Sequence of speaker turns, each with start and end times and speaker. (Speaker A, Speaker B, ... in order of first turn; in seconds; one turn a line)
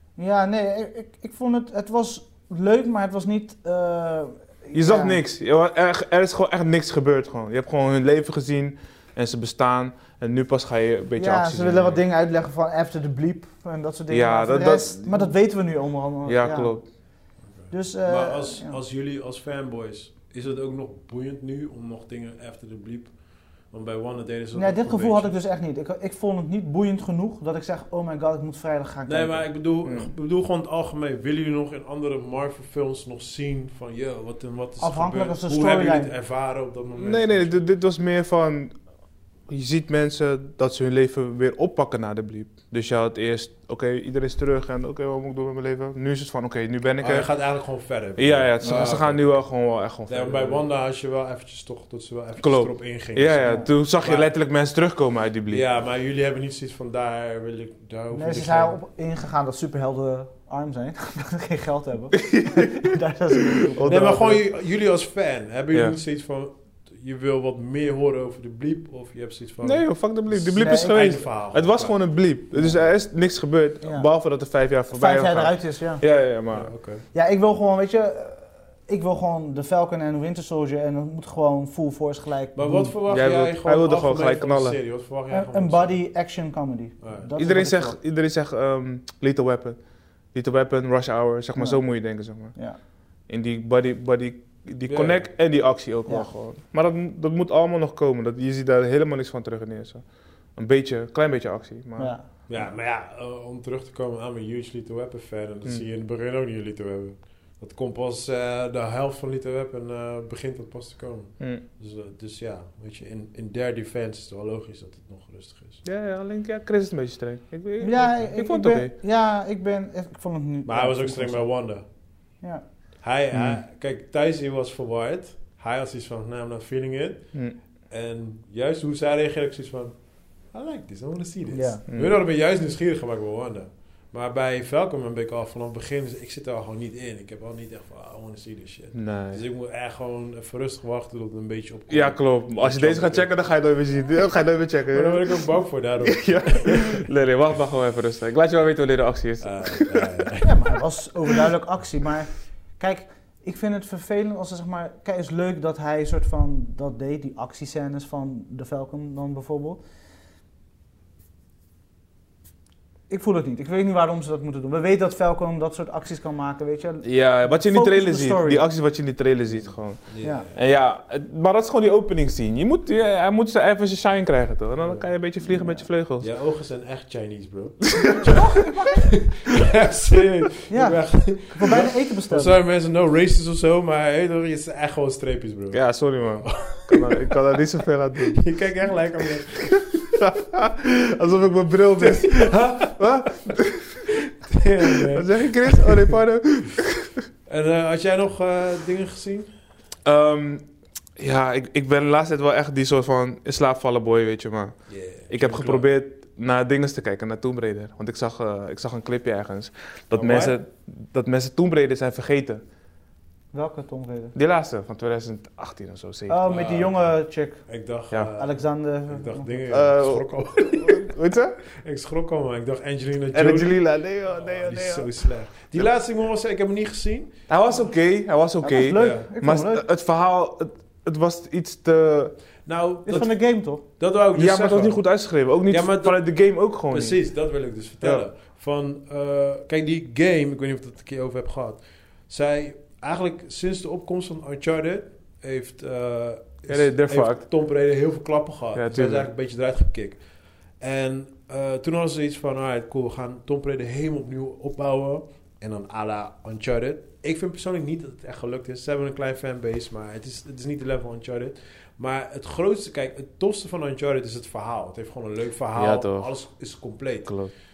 Speaker A: 0.2-5.2
Speaker B: 4.7-12.0
Speaker A: 11.2-17.0
Speaker B: 14.1-15.4
Speaker B: 16.2-16.9
Speaker C: 17.4-25.3
Speaker A: 17.7-18.8
Speaker A: 24.5-29.5
Speaker C: 29.1-37.6
Speaker B: 29.8-30.1
Speaker A: 34.8-36.1
Speaker B: 37.0-38.7
Speaker B: 39.5-47.5
Speaker C: 47.0-49.5
Speaker B: 48.1-50.6
Speaker A: 48.6-49.0
Speaker C: 50.0-54.3
Speaker B: 52.4-55.6
Speaker A: 53.4-53.7
Speaker C: 55.5-58.8
Speaker A: 58.1-64.4
Speaker B: 62.1-62.9
Speaker B: 63.5-64.4
Speaker C: 63.8-72.0
Speaker B: 69.6-76.7
Speaker A: 70.5-71.2
Speaker A: 72.5-72.9
Speaker A: 73.8-74.1
Speaker A: 74.9-76.0
Speaker C: 76.5-77.0
Speaker A: 77.1-82.9
Speaker C: 82.5-86.0
Speaker B: 83.1-84.8
Speaker A: 85.3-88.0
Speaker C: 87.0-87.3
Speaker B: 87.4-92.6
Speaker A: 91.5-92.8
Speaker B: 93.2-102.1
Speaker C: 94.8-95.3
Speaker A: 102.0-102.6
Speaker C: 102.5-115.8
Speaker B: 115.8-118.9
Speaker A: 117.8-121.9
Speaker C: 120.6-121.9
Speaker A: 122.4-122.7
Speaker C: 123.0-143.3
Speaker B: 123.3-123.6
Speaker A: 131.5-131.8
Speaker B: 131.9-132.2
Speaker B: 138.9-139.4
Speaker B: 141.9-145.4
Speaker C: 144.9-147.0
Speaker B: 146.0-150.0
Speaker C: 149.4-150.5
Speaker A: 150.4-159.8
Speaker A: 163.1-168.6
Speaker B: 167.0-176.3
Speaker C: 169.5-170.6
Speaker C: 174.8-175.1
Speaker A: 175.4-175.9
Speaker C: 176.2-187.3
Speaker A: 180.7-182.6
Speaker B: 185.7-188.5
Speaker C: 188.3-190.2
Speaker B: 190.0-194.0
Speaker C: 192.0-193.5
Speaker C: 194.3-196.1
Speaker B: 194.9-197.3
Speaker C: 197.4-199.5
Speaker B: 200.0-200.7
Speaker B: 201.2-212.6
Speaker C: 204.9-205.9
Speaker C: 210.1-210.6
Speaker A: 213.5-214.3
Speaker B: 214.3-216.5
Speaker A: 216.3-217.7
Speaker C: 216.4-221.1
Speaker A: 218.4-219.6
Speaker B: 219.7-221.5
Speaker C: 221.7-227.3
Speaker B: 223.3-225.9
Speaker B: 227.5-232.3
Speaker A: 228.6-229.8
Speaker C: 228.9-229.3
Speaker C: 232.7-235.1
Speaker A: 233.1-233.8
Speaker B: 234.3-237.2
Speaker C: 235.7-267.4
Speaker B: 246.7-247.4
Speaker B: 248.7-249.3
Speaker B: 265.7-266.6
Speaker B: 267.2-267.5